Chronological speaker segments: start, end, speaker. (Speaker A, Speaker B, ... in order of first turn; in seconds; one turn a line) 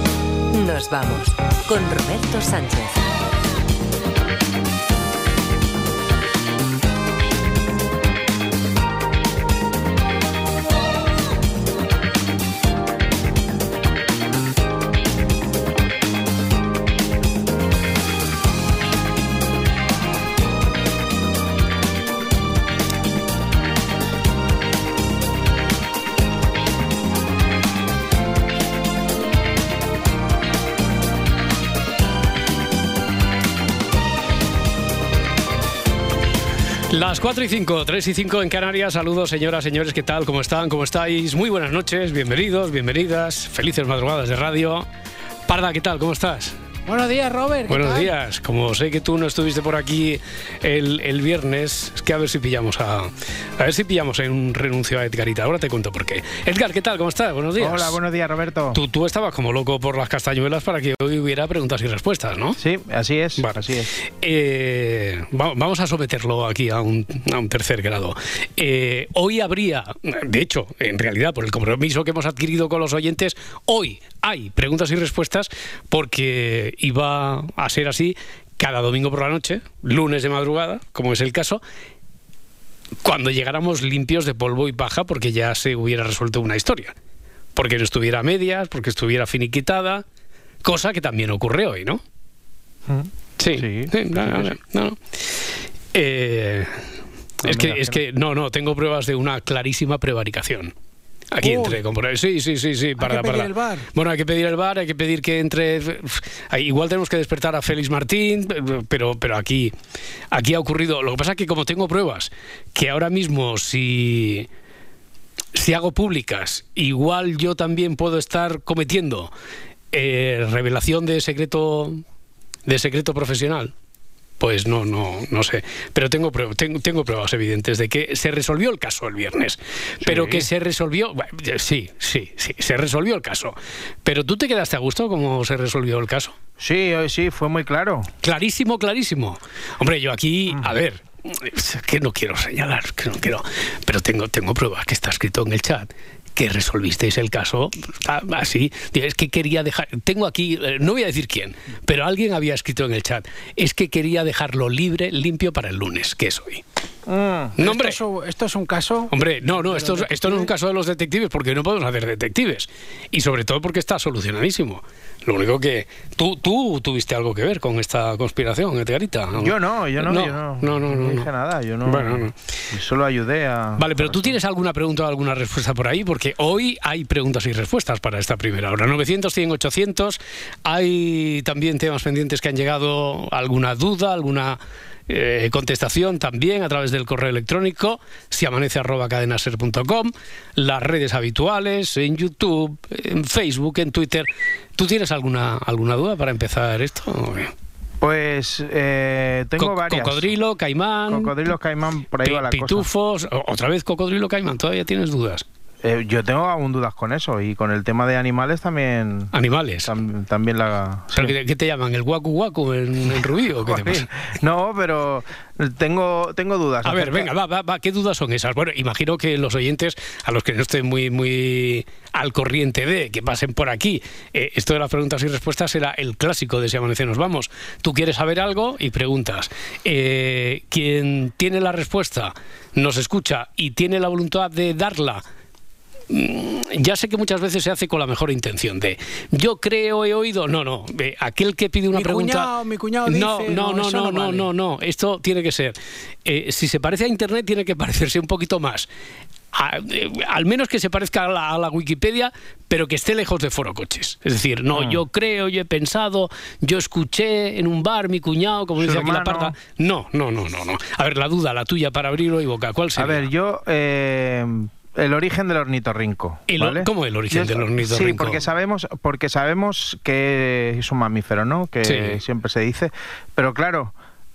Speaker A: 0.5-3.1
Speaker B: 36.9-44.9
Speaker B: 45.5-46.6
Speaker C: 46.9-48.1
Speaker B: 47.7-58.0
Speaker D: 57.6-58.8
Speaker B: 58.7-62.6
Speaker D: 62.6-63.9
Speaker B: 63.4-81.6
Speaker B: 83.0-86.9
Speaker B: 87.5-90.0
Speaker B: 90.6-92.0
Speaker D: 92.9-94.5
Speaker B: 93.4-96.8
Speaker B: 97.4-100.7
Speaker D: 97.4-98.0
Speaker B: 101.3-109.7
Speaker C: 101.4-101.8
Speaker C: 103.0-103.9
Speaker B: 110.3-114.5
Speaker B: 115.5-119.3
Speaker B: 119.9-122.0
Speaker B: 122.7-123.7
Speaker B: 124.4-136.3
Speaker D: 130.0-130.5
Speaker D: 136.6-138.1
Speaker B: 138.2-156.6
Speaker D: 157.1-157.5
Speaker B: 157.6-158.0
Speaker C: 157.6-160.5
Speaker B: 159.1-171.3
Speaker D: 169.4-174.4
Speaker B: 171.8-172.3
Speaker B: 173.8-197.5
Speaker D: 198.0-200.3
Speaker B: 199.6-201.5
Speaker D: 201.1-202.9
Speaker B: 202.2-205.4
Speaker D: 205.8-209.3
Speaker B: 209.3-209.9
Speaker D: 209.8-211.3
Speaker B: 211.2-214.1
Speaker D: 213.6-217.3
Speaker B: 216.8-235.2
Speaker B: 236.1-242.5
Speaker C: 241.9-244.5
Speaker B: 243.1-248.9
Speaker B: 249.5-263.3
Speaker D: 254.7-255.0
Speaker D: 258.8-259.5
Speaker D: 263.0-273.9
Speaker B: 266.5-268.4
Speaker B: 271.8-272.2